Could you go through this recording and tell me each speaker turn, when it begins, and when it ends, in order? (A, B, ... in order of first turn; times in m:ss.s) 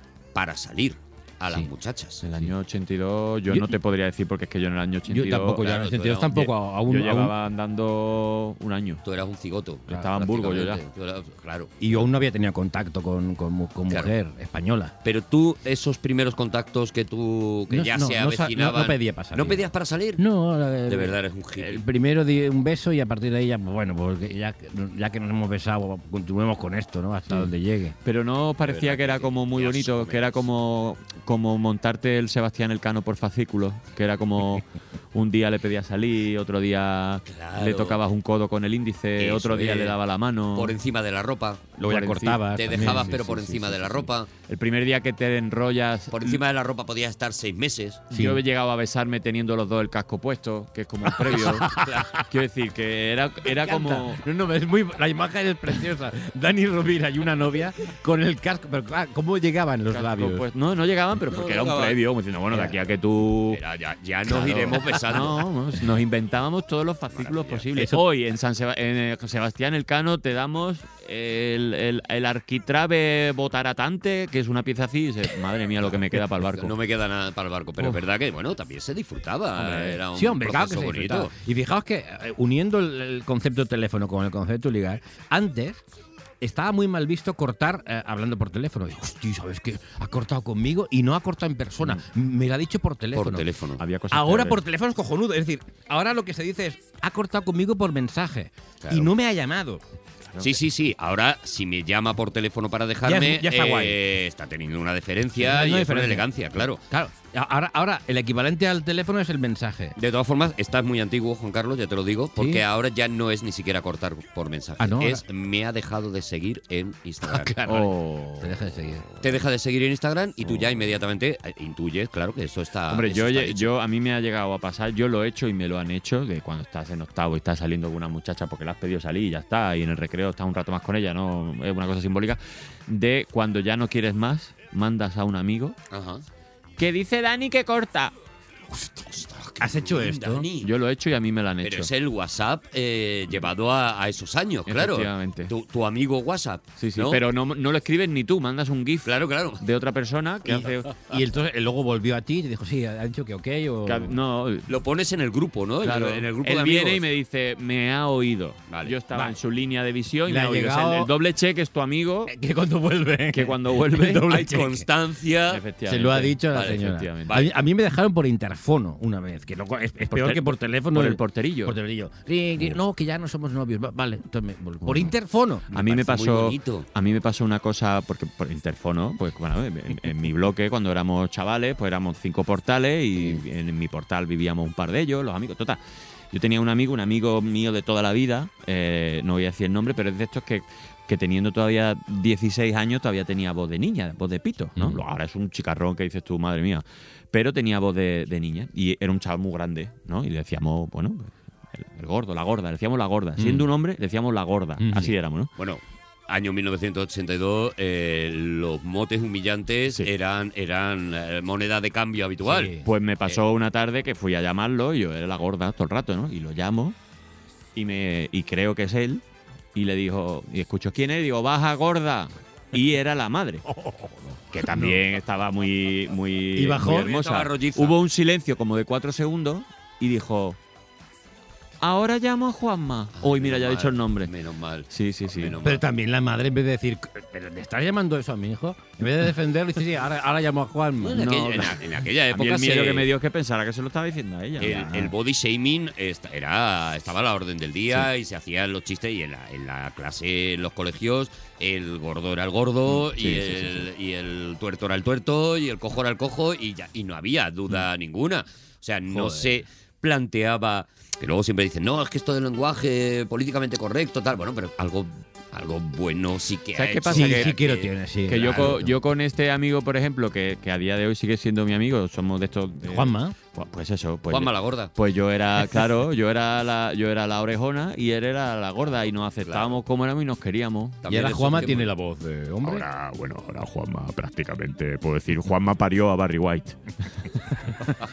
0:00.4-0:02.3 A
0:02.2-0:05.7 B
0:03.5-0:03.8 C
0:05.1-0:07.4 C
0:05.6-0:06.4 A
0:06.3-0:09.0 B
0:09.0-0:11.8 A
0:09.9-0:10.8 B
0:11.8-0:15.0 C
0:15.0-0:20.2 A
0:17.7-0:28.0 C
0:20.9-0:21.8 A
0:28.0-0:40.8 B
0:28.6-0:30.4 A
0:37.3-0:38.0 A
0:39.2-0:40.0 A
0:40.5-0:41.6 A
0:41.8-0:43.1 C
0:41.8-0:46.4 B
0:42.5-0:44.3 A
0:46.1-0:48.0 A
0:48.1-0:54.2 B
0:48.1-0:48.4 C
0:51.1-0:52.2 C
0:51.7-0:52.1 A
0:53.4-1:00.4 C
0:59.9-1:03.6 B
1:01.3-1:02.0 A
1:02.5-1:02.8 C
1:03.5-1:05.4 A
1:04.3-1:16.8 B
1:07.1-1:07.6 A
1:07.8-1:08.0 C
1:16.2-1:21.3 A
1:19.6-1:20.0 B
1:20.0-1:25.8 C
1:26.4-1:33.5 C
1:33.1-1:33.8 A
1:33.8-1:34.6 B
1:34.1-1:39.8 C
1:38.8-1:39.1 A
1:40.3-1:40.6 B
1:40.4-1:46.8 A
1:43.0-1:44.0 C
1:45.4-1:46.3 C
1:46.9-1:50.0 C
1:50.0-1:57.5 A
1:52.4-1:52.6 C
1:54.8-1:55.2 C
1:57.2-1:59.1 C
1:57.6-1:58.6 B
1:59.2-2:03.7 A
2:02.9-2:15.8 B
2:15.9-2:16.2 A
2:16.8-2:18.1 B
2:18.8-2:20.7 A
2:19.6-2:20.5 C
2:20.6-2:21.9 B
2:21.6-2:27.2 A
2:24.7-2:25.5 B
2:26.8-2:30.9 B
2:29.0-2:29.6 A
2:30.4-2:34.2 C
2:33.8-2:34.7 B
2:34.7-2:37.1 A
2:35.8-2:42.3 B
2:38.7-2:39.0 A
2:39.1-2:39.4 C
2:40.2-2:41.1 C
2:42.3-2:44.9 C
2:43.3-2:44.6 B
2:44.3-2:45.6 A
2:45.5-2:47.4 B
2:45.8-2:55.7 C
2:47.3-2:47.5 A
2:50.1-2:51.8 B
2:54.8-2:55.1 B
2:55.7-2:56.9 A
2:55.7-3:05.8 B
3:06.3-3:25.5 B
3:14.8-3:15.0 C
3:23.4-3:23.7 C
3:24.8-3:25.1 C
3:25.6-3:32.7 A
3:32.4-3:32.9 C
3:32.8-3:37.0 B
3:37.8-3:39.2 B
3:39.8-3:43.6 B
3:43.7-3:44.1 C
3:44.5-3:50.6 B
3:44.7-3:45.0 C
3:46.6-3:47.2 C
3:46.9-3:48.0 A
3:51.8-3:54.3 B
3:53.2-3:55.8 A
3:54.9-3:55.6 B
3:55.6-4:01.3 C
4:01.0-4:03.1 A
4:01.2-4:05.1 B
4:04.6-4:27.9 A
4:12.9-4:13.9 B
4:19.1-4:19.5 C
4:26.8-4:27.6 B
4:27.1-4:28.9 C
4:28.3-4:41.0 B
4:32.8-4:33.4 C
4:34.3-4:34.9 A
4:39.4-4:39.8 A
4:41.0-4:41.9 A
4:41.1-4:42.9 C
4:42.6-4:47.9 B